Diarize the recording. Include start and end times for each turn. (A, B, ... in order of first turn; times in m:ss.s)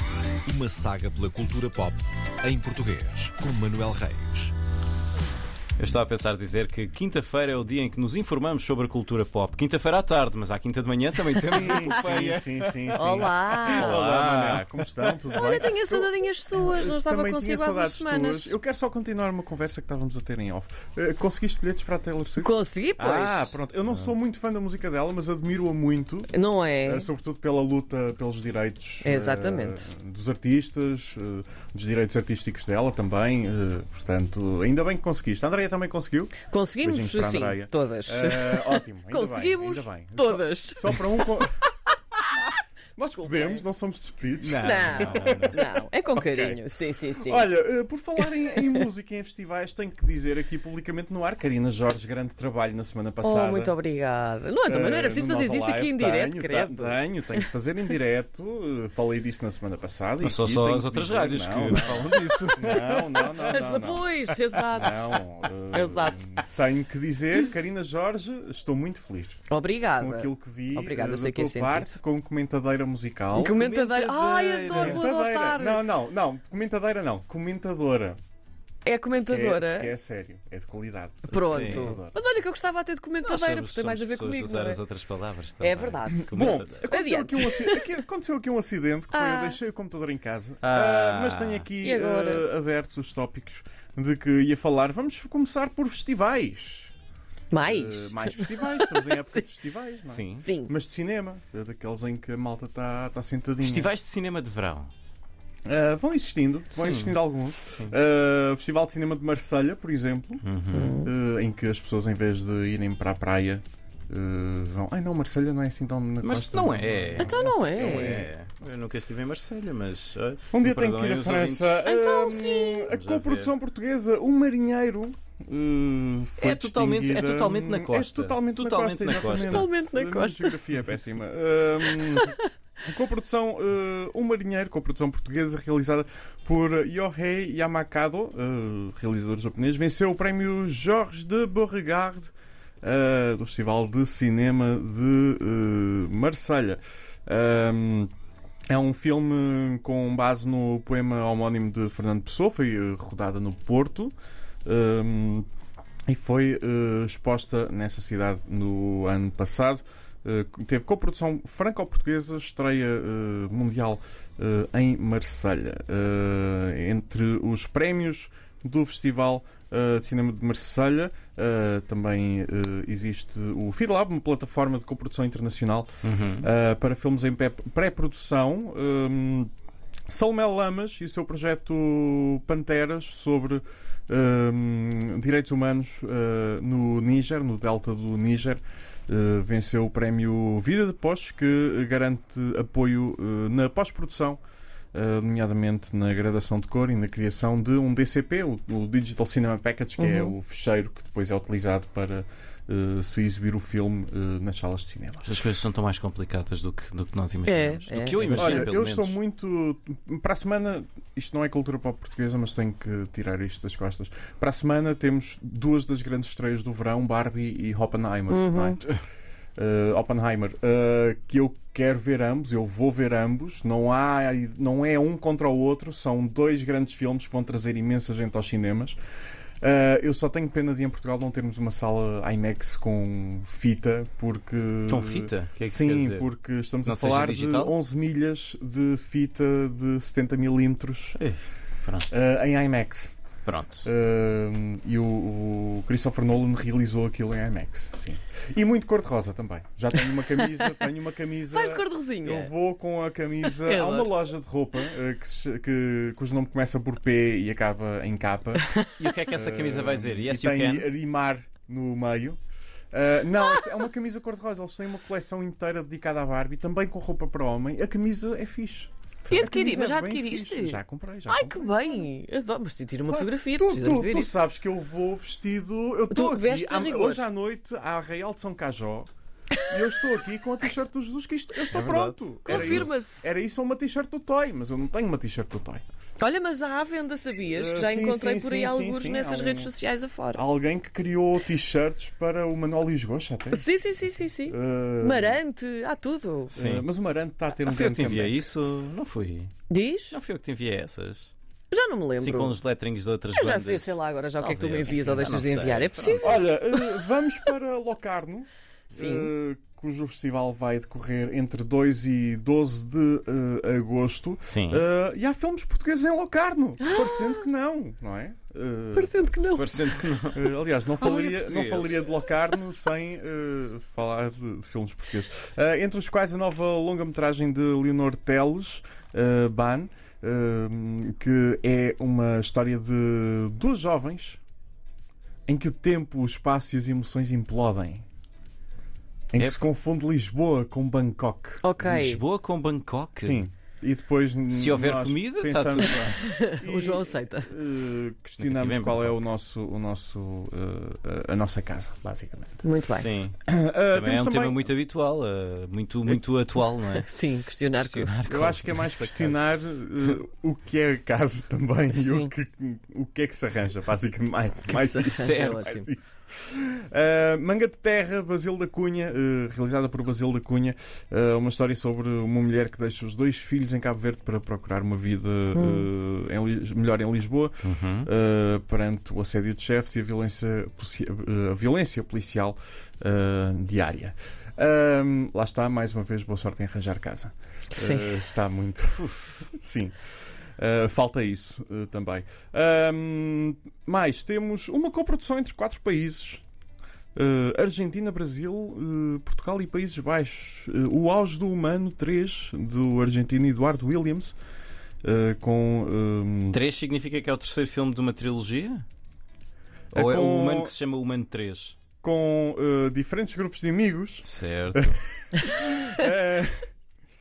0:00.4-0:04.5 A
0:05.8-0:15.4 B
0:11.4-0:12.0 C
0:11.4-0:26.3 D
0:12.9-0:14.0 C
0:15.3-0:18.6 C
0:22.4-0:23.6 C
0:26.3-0:27.1 C
0:26.8-0:41.5 D
0:29.0-0:29.8 C
0:36.4-0:41.4 C
0:43.0-0:46.6 D
0:43.0-0:43.6 C
0:44.4-0:45.6 B
0:44.6-0:47.5 C
0:47.2-0:53.7 D
0:48.4-0:48.9 C
0:53.2-0:57.5 C
0:54.6-1:09.4 D
1:00.2-1:02.9 B
1:02.5-1:05.0 C
1:05.7-1:06.3 C
1:09.5-1:12.0 C
1:10.0-1:13.6 D
1:13.3-1:15.9 C
1:13.5-1:15.0 B
1:14.7-1:18.2 D
1:18.8-1:19.9 C
1:19.2-1:22.2 D
1:21.3-1:24.8 C
1:21.4-1:22.0 B
1:23.2-1:26.9 B
1:25.6-1:27.9 C
1:26.1-1:36.9 D
1:29.1-1:29.6 C
1:30.6-1:31.7 B
1:31.8-1:32.5 C
1:37.5-1:39.4 C
1:37.6-1:43.9 D
1:40.1-1:40.5 B
1:40.4-1:40.7 C
1:43.6-1:44.9 B
1:45.7-1:50.4 D
1:46.8-1:48.0 B
1:50.4-1:50.9 B
1:50.7-1:51.1 C
1:51.0-1:58.3 D
1:56.2-2:01.9 B
1:57.2-1:58.3 C
2:00.5-2:28.1 D
2:01.8-2:02.9 C
2:02.9-2:03.5 B
2:06.4-2:09.8 B
2:09.2-2:10.6 C
2:12.0-2:12.4 C
2:28.7-2:34.1 D
2:34.6-2:35.5 D
2:36.1-2:59.5 D
2:56.0-2:56.5 B
3:00.1-3:14.4 D
3:14.9-3:25.3 D
3:20.0-3:20.4 C
3:25.2-3:29.2 B
3:27.4-3:28.8 C
3:28.3-3:38.8 D
3:38.3-3:38.8 C
3:39.6-3:49.0 D
3:49.6-4:01.2 D
3:54.9-3:56.3 B
3:56.8-3:57.8 B
4:01.2-4:02.2 B
4:02.1-4:03.2 D
4:03.5-4:03.9 B
4:03.8-4:18.7 D
4:11.5-4:12.5 C
4:13.4-4:14.2 C
4:19.0-4:20.9 B
4:19.3-4:22.4 D
4:22.9-4:32.0 D
4:29.3-4:34.3 C
4:33.1-4:39.1 D
4:36.1-4:37.3 C
4:39.7-4:45.8 D
4:41.7-4:42.9 B
4:42.5-4:43.3 C
4:46.2-4:50.4 C
4:47.5-4:49.7 D
4:50.3-4:53.7 D
4:53.5-4:56.6 C
4:54.4-4:55.4 D
4:56.5-4:58.4 D
4:56.6-4:56.9 B
4:57.6-4:59.5 B
4:59.7-5:00.2 C
5:00.1-5:01.3 B
5:01.7-5:02.6 C
5:02.2-5:06.5 B
5:03.3-5:07.0 C
5:06.1-5:19.6 D
5:09.0-5:09.3 C
5:14.4-5:14.8 B
5:16.8-5:17.4 C
5:18.9-5:19.7 C
5:19.5-5:22.0 B
5:20.4-5:34.4 D
5:35.5-5:38.0 D
5:39.3-5:41.6 D
5:39.4-5:39.7 B
5:41.6-5:42.2 C
5:41.8-5:43.5 B
5:43.2-5:52.7 D
5:44.5-5:46.2 B
5:46.2-5:47.5 C
5:48.4-5:49.2 B
5:52.6-5:53.1 C
5:53.0-5:53.4 B
5:53.4-5:54.7 D
5:53.9-5:57.1 B
5:56.8-5:58.1 C
5:57.8-5:59.4 B
5:58.2-6:30.0 D
6:01.9-6:02.3 C
6:04.7-6:05.8 C
6:05.1-6:05.7 B
6:15.6-6:15.9 C
6:17.6-6:18.1 B
6:27.7-6:28.2 C
6:30.6-6:36.4 D
6:37.2-6:44.4 D
6:45.0-6:46.6 D
6:46.5-6:48.8 B
6:49.9-6:50.8 D
6:49.9-6:51.8 B
6:52.0-6:56.7 D
6:54.2-6:55.0 B